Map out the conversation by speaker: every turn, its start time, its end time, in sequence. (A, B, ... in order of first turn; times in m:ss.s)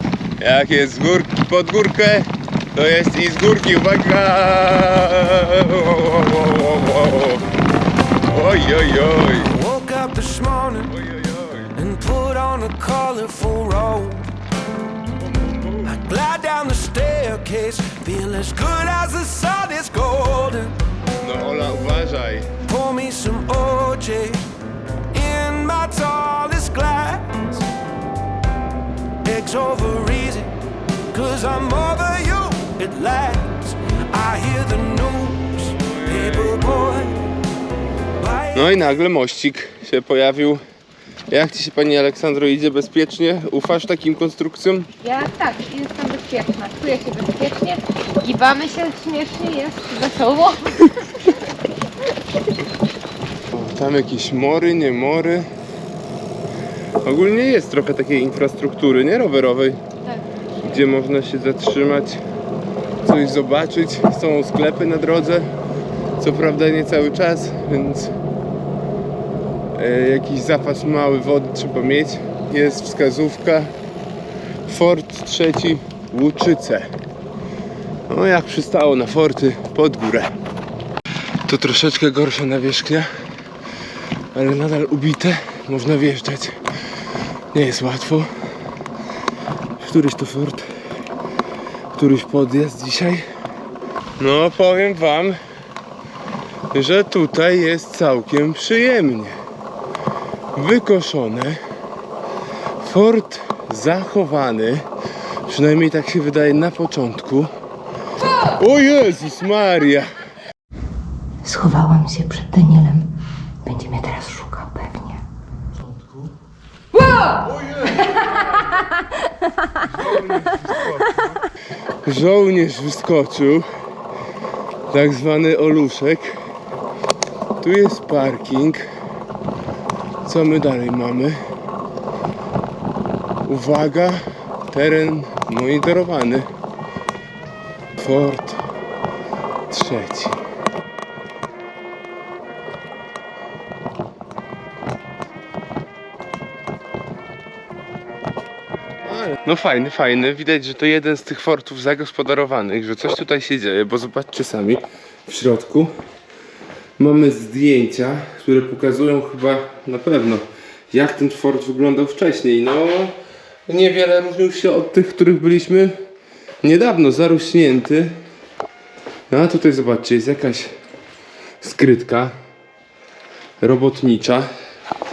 0:00.4-0:07.5 A
0:08.3-0:09.6 A
0:09.5-0:10.9 B
0:10.9-0:11.7 A
0:11.8-0:14.3 B
0:15.2-0:16.0 A
0:15.8-0:20.8 B
0:21.2-0:22.5 A
0:22.7-0:24.4 B
0:25.1-0:27.6 B
0:29.2-0:30.6 B
0:31.1-0:37.2 B
0:38.2-0:38.6 B
0:38.5-0:40.6 A
0:41.3-0:44.9 A
0:45.0-0:51.3 C
0:53.5-0:55.5 A
0:57.0-0:59.8 A
1:00.6-1:02.2 A
1:03.0-1:05.5 A
1:06.2-1:08.1 A
1:09.8-1:13.7 A
1:14.7-1:16.9 A
1:18.1-1:20.3 A
1:21.5-1:23.1 A
1:24.3-1:26.6 A
1:27.5-1:28.3 A
1:29.8-1:30.7 A
1:32.0-1:33.2 A
1:34.2-1:35.4 A
1:36.7-1:39.4 A
1:40.6-1:41.6 A
1:42.8-1:44.9 A
1:45.5-1:47.5 A
1:48.6-1:50.1 A
1:51.4-1:53.1 D
1:53.6-1:55.2 D
2:00.0-2:01.1 A
2:02.0-2:03.7 A
2:04.9-2:06.4 A
2:07.6-2:08.8 A
2:10.2-2:11.4 A
2:13.5-2:16.5 A
2:18.0-2:18.6 A
2:19.7-2:20.4 A
2:29.1-2:35.9 A
2:37.0-2:43.2 A
2:43.7-2:46.0 A
2:46.6-2:48.1 A
2:49.3-2:50.7 A
2:51.6-2:52.4 A
2:53.6-2:54.5 A